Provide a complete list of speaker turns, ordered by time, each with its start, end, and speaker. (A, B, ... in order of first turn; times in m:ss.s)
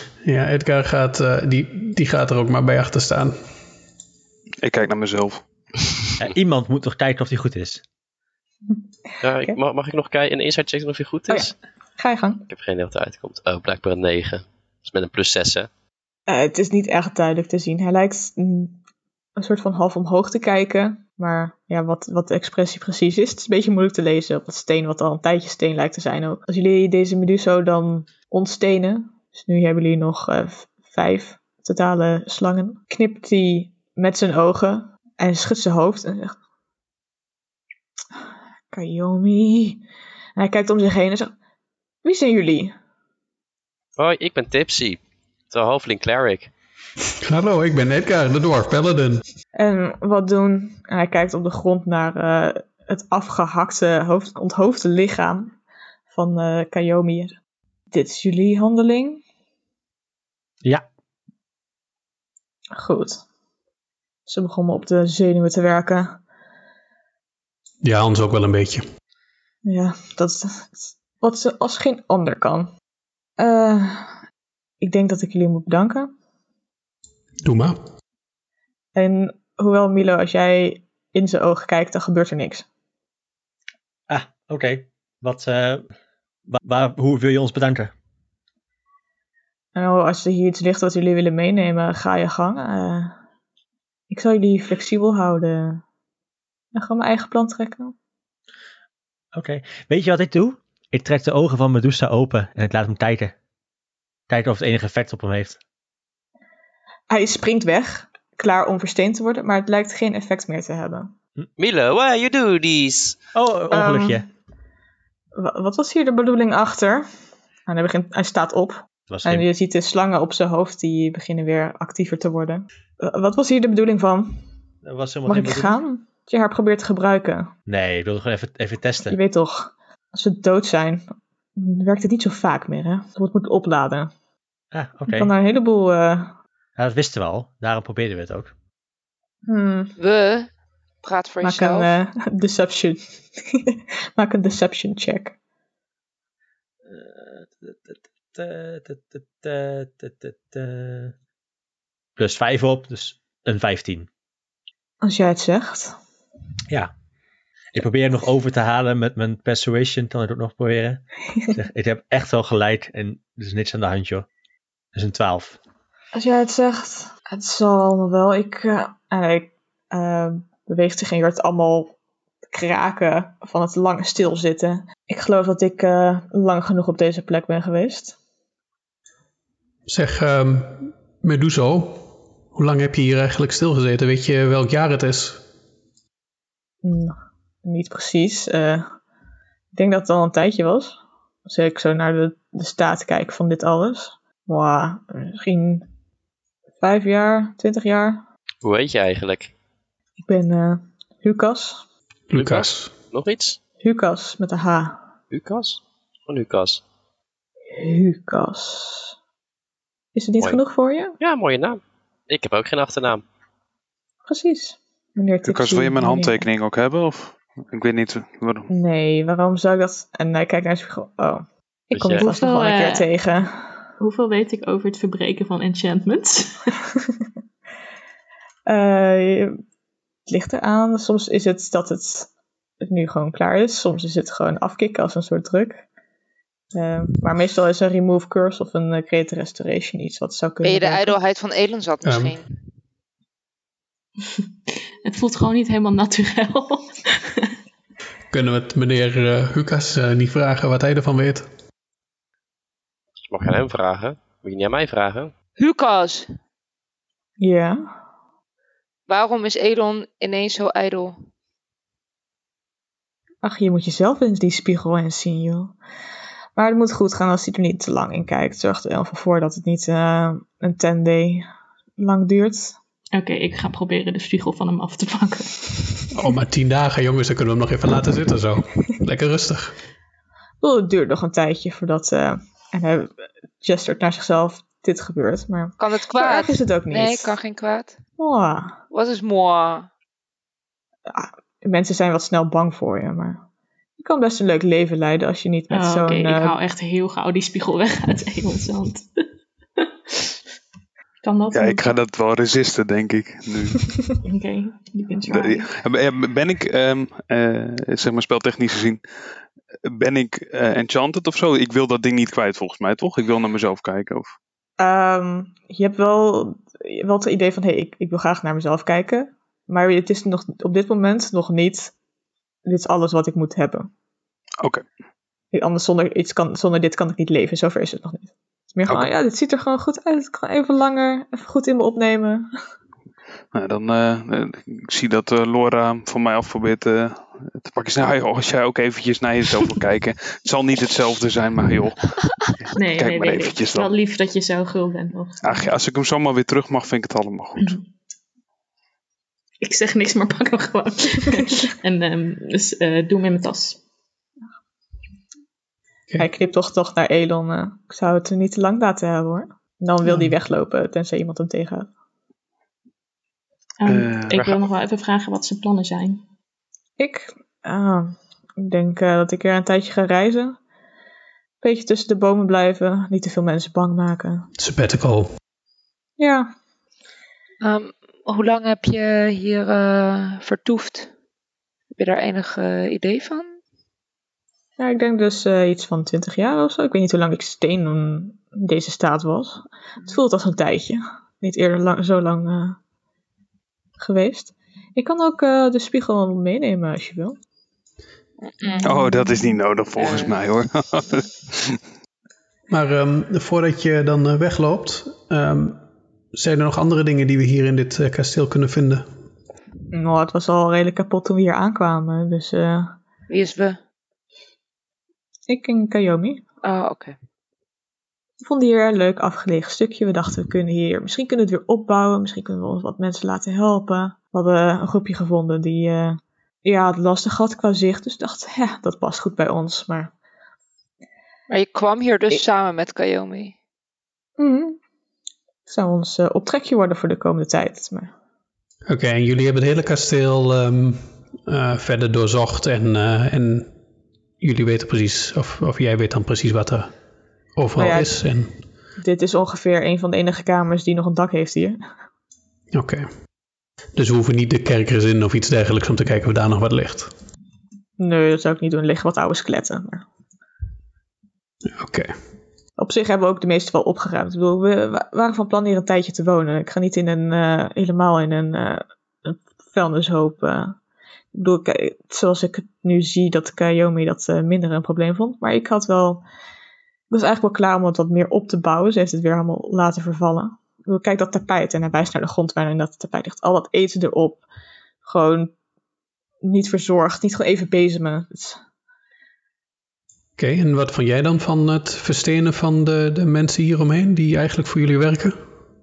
0:00.2-0:03.4 A
0:04.6-0:05.4 B
0:06.2-0:07.8 C
0:09.2-0:11.5 D
0:11.3-0:12.4 E
0:12.5-0:15.7 D
0:16.3-0:18.8 E
0:19.4-0:36.3 E
0:38.7-0:39.8 E
0:40.4-0:41.3 E
0:42.0-0:42.7 E
0:44.0-0:46.5 D
0:47.2-0:49.2 A
0:49.6-0:55.5 E
0:56.1-0:57.4 E
0:57.9-0:59.2 E
1:02.7-1:03.2 E
1:04.3-1:06.2 E
1:07.8-1:08.8 A
1:09.6-1:12.7 E
1:13.4-1:14.1 E
1:14.8-1:16.1 E
1:17.4-1:17.8 A
1:18.9-1:22.6 E
1:24.1-1:25.9 C
1:26.5-1:27.9 C
1:29.7-1:33.2 E
1:34.1-1:35.8 E
1:36.7-1:37.9 E
1:39.3-1:43.3 C
1:44.3-1:45.6 C
1:47.1-1:51.1 E
1:51.6-1:53.2 D
1:53.3-1:54.3 C
1:53.7-1:54.2 E
1:55.3-1:57.1 E
1:57.7-2:04.4 E
1:59.1-1:59.5 C
2:04.8-2:05.8 C
2:05.2-2:07.5 E
2:07.7-2:09.2 C
2:09.1-2:14.1 E
2:14.7-2:15.3 C
2:15.1-2:16.3 E
2:16.8-2:18.5 C
2:19.5-2:19.9 E
2:20.0-2:20.5 F
2:21.0-2:21.9 F
2:21.4-2:25.4 E
2:26.9-2:31.1 C
2:32.2-2:34.1 C
2:35.0-2:36.0 E
2:37.7-2:44.3 C
2:44.9-2:45.6 C
2:46.1-2:51.9 E
2:52.5-2:58.2 E
2:59.9-3:05.4 A
3:06.8-3:08.9 E
3:09.7-3:15.9 E
3:16.8-3:18.2 E
3:18.6-3:19.5 D
3:20.2-3:21.8 E
3:22.3-3:22.9 A
3:22.3-3:23.6 D
3:23.8-3:25.0 E
3:25.3-3:26.8 D
3:27.7-3:29.1 E
3:30.1-3:31.2 E
3:31.2-3:33.2 D
3:34.3-3:36.4 E
3:35.4-3:38.7 B
3:38.7-3:43.8 E
3:41.9-3:42.3 D
3:42.1-3:43.1 G
3:44.0-3:46.8 G
3:48.7-3:49.6 E
3:50.3-3:52.3 E
3:52.8-3:55.8 E
3:56.7-4:01.1 E
4:00.6-4:02.5 F
4:02.0-4:02.4 A
4:05.0-4:07.5 G
4:08.3-4:11.5 A
4:13.2-4:15.3 D
4:15.6-4:16.3 F
4:17.4-4:17.8 E
4:19.1-4:21.2 F
4:23.4-4:25.7 E
4:26.6-4:31.4 E
4:32.0-4:32.8 E
4:33.1-4:36.1 G
4:36.1-4:39.7 A
4:40.6-4:47.4 E
4:45.8-4:48.0 F
4:48.2-4:48.8 E
4:48.9-4:49.9 F
4:51.1-4:53.4 E
4:54.0-4:56.5 E
4:55.7-4:59.1 G
4:59.8-5:00.3 G
5:01.2-5:01.9 G
5:01.5-5:03.9 B
5:04.2-5:05.7 G
5:05.3-5:09.0 B
5:09.8-5:14.3 B
5:14.8-5:21.9 E
5:22.6-5:23.9 E
5:25.5-5:32.5 E
5:33.5-5:42.1 B
5:42.6-5:43.9 B
5:42.7-5:45.7 G
5:45.4-5:47.8 B
5:49.6-5:53.8 G
5:56.2-6:01.9 E
6:03.8-6:06.2 G
6:03.8-6:04.5 B
6:07.0-6:10.6 E
6:11.6-6:14.5 E
6:14.6-6:15.3 A
6:16.2-6:16.5 E
6:17.6-6:21.1 F
6:21.9-6:23.6 F
6:24.8-6:32.8 E
6:34.0-6:37.4 E
6:38.4-6:39.4 F
6:38.8-6:41.8 B
6:40.0-6:40.3 F
6:42.7-6:45.8 A
6:46.3-6:49.0 A
6:49.9-6:52.9 E
6:53.3-6:53.8 F
6:55.5-6:56.4 E
6:56.6-6:57.2 F
6:58.4-7:10.1 E
7:11.5-7:13.5 F
7:14.4-7:14.8 E
7:15.7-7:18.1 E
7:18.9-7:23.7 A
7:24.4-7:26.9 A
7:27.6-7:28.5 A
7:27.8-7:28.2 E
7:29.0-7:31.8 E
7:32.7-7:33.1 A
7:33.9-7:37.1 A
7:38.0-7:40.0 E
7:41.6-7:42.1 A
7:42.8-7:50.8 E
7:51.3-7:56.2 E
7:57.1-8:04.4 E
8:05.0-8:05.5 E
8:06.4-8:08.6 E
8:10.4-8:15.4 A